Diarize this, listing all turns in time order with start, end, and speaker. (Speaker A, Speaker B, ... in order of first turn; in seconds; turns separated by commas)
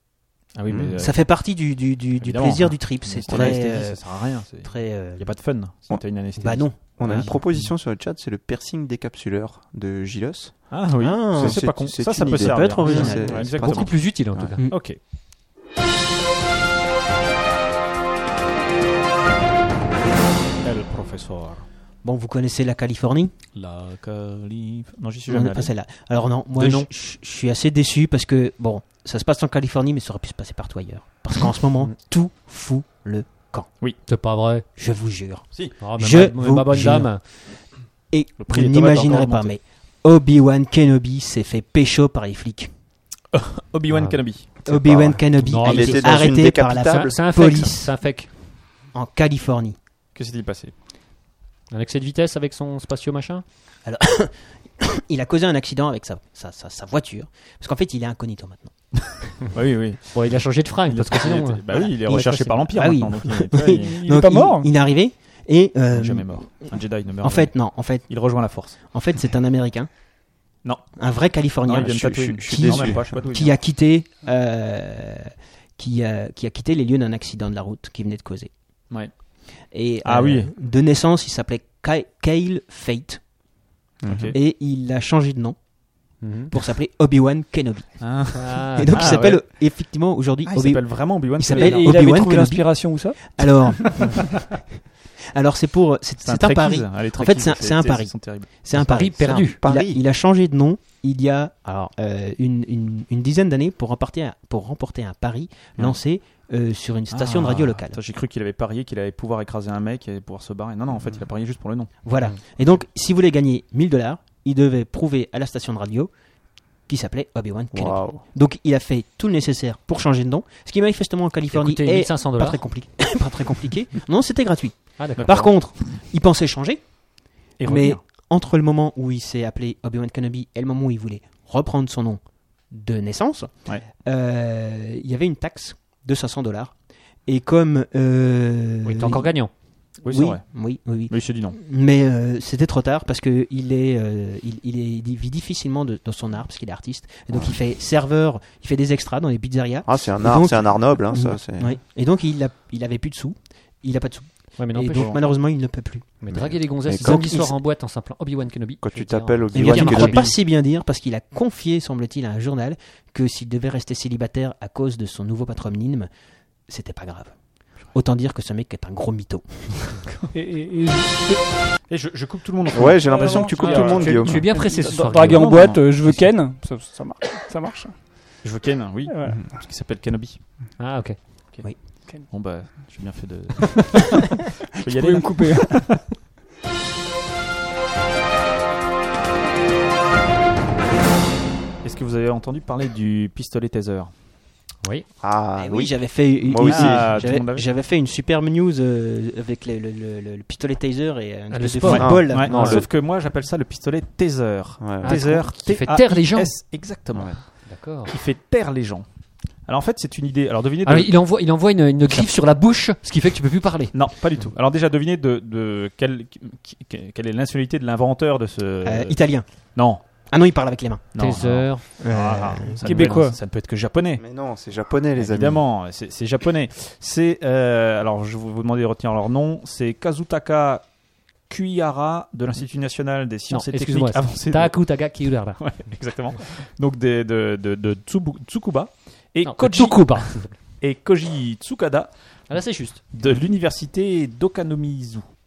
Speaker A: 0.5-1.4, Speaker B: 0.7-1.0, Speaker C: 1.0-5.2, Speaker A: 2.2-7.6, Speaker B: 3.3-3.6, Speaker C: 6.4-7.2, Speaker B: 6.8-14.5, Speaker A: 10.7-15.0, Speaker C: 11.0-13.5, Speaker D: 12.8-14.6, Speaker C: 14.6-14.8, Speaker A: 20.6-21.7, Speaker C: 22.0-23.3, Speaker A: 23.5-25.7, Speaker C: 25.3-33.7, Speaker D: 34.0-34.6, Speaker C: 34.8-37.5, Speaker D: 35.8-37.2, Speaker C: 38.1-42.7, Speaker A: 38.4-39.5, Speaker A: 43.3-44.6, Speaker D: 43.9-44.2, Speaker C: 44.6-47.9, Speaker D: 44.9-48.3, Speaker B: 45.6-47.5, Speaker C: 48.9-49.8, Speaker A: 50.1-50.7, Speaker D: 51.7-53.4, Speaker C: 53.8-59.3, Speaker A: 59.4-63.9, Speaker D: 60.1-62.6, Speaker C: 62.7-69.9, Speaker E: 63.7-64.7, Speaker A: 65.9-68.8, Speaker A: 70.6-71.0, Speaker C: 71.0-78.5, Speaker A: 71.6-73.6, Speaker B: 71.8-73.2, Speaker A: 78.9-79.2, Speaker C: 79.7-83.2, Speaker A: 80.0-80.5, Speaker B: 84.0-84.3, Speaker A: 84.1-84.3, Speaker C: 84.3-85.6, Speaker C: 86.2-94.5, Speaker D: 86.2-86.5, Speaker A: 88.0-89.4, Speaker D: 88.3-89.2, Speaker A: 90.5-91.9, Speaker E: 91.5-93.7, Speaker C: 95.3-108.0, Speaker A: 96.2-98.5, Speaker D: 98.7-99.6, Speaker B: 99.2-100.0, Speaker A: 107.1-111.9, Speaker C: 112.0-116.1, Speaker C: 116.8-126.9, Speaker B: 117.7-118.2, Speaker D: 121.5-122.6, Speaker D: 125.0-125.5, Speaker A: 125.2-125.5, Speaker C: 127.5-136.7, Speaker A: 127.6-128.0, Speaker C: 137.2-139.3, Speaker D: 138.8-139.5, Speaker A: 140.0-141.6, Speaker C: 140.0-156.2, Speaker B: 147.3-147.6, Speaker B: 149.8-151.8, Speaker D: 154.6-155.4, Speaker D: 156.2-160.3, Speaker B: 156.3-157.4, Speaker C: 157.0-157.5, Speaker B: 158.8-160.4, Speaker C: 159.5-166.1, Speaker C: 166.7-169.7, Speaker E: 170.3-171.5, Speaker A: 171.9-174.4, Speaker B: 172.7-174.7, Speaker E: 172.9-178.3, Speaker D: 173.6-176.2, Speaker A: 175.1-176.2, Speaker A: 178.4-180.4, Speaker E: 179.1-179.5, Speaker D: 180.8-181.2, Speaker A: 181.5-186.1, Speaker E: 184.8-186.0, Speaker A: 191.8-194.1, Speaker B: 195.2-197.2, Speaker C: 195.6-202.8, Speaker A: 196.7-197.6, Speaker D: 201.5-202.8, Speaker A: 201.8-209.1, Speaker B: 201.9-202.8, Speaker B: 204.8-205.2, Speaker D: 205.0-206.5, Speaker D: 207.7-208.1, Speaker A: 209.7-211.1, Speaker D: 210.8-213.9, Speaker A: 213.9-219.2, Speaker C: 218.8-219.4, Speaker A: 219.7-220.0, Speaker C: 220.0-221.1, Speaker A: 221.1-224.2, Speaker D: 221.2-223.2, Speaker C: 222.0-222.8, Speaker E: 222.8-223.4, Speaker B: 224.2-225.6, Speaker A: 225.2-230.8, Speaker A: 231.5-235.0, Speaker D: 233.5-235.8, Speaker A: 235.6-242.1, Speaker D: 239.4-240.6, Speaker D: 242.5-243.0, Speaker A: 243.1-245.3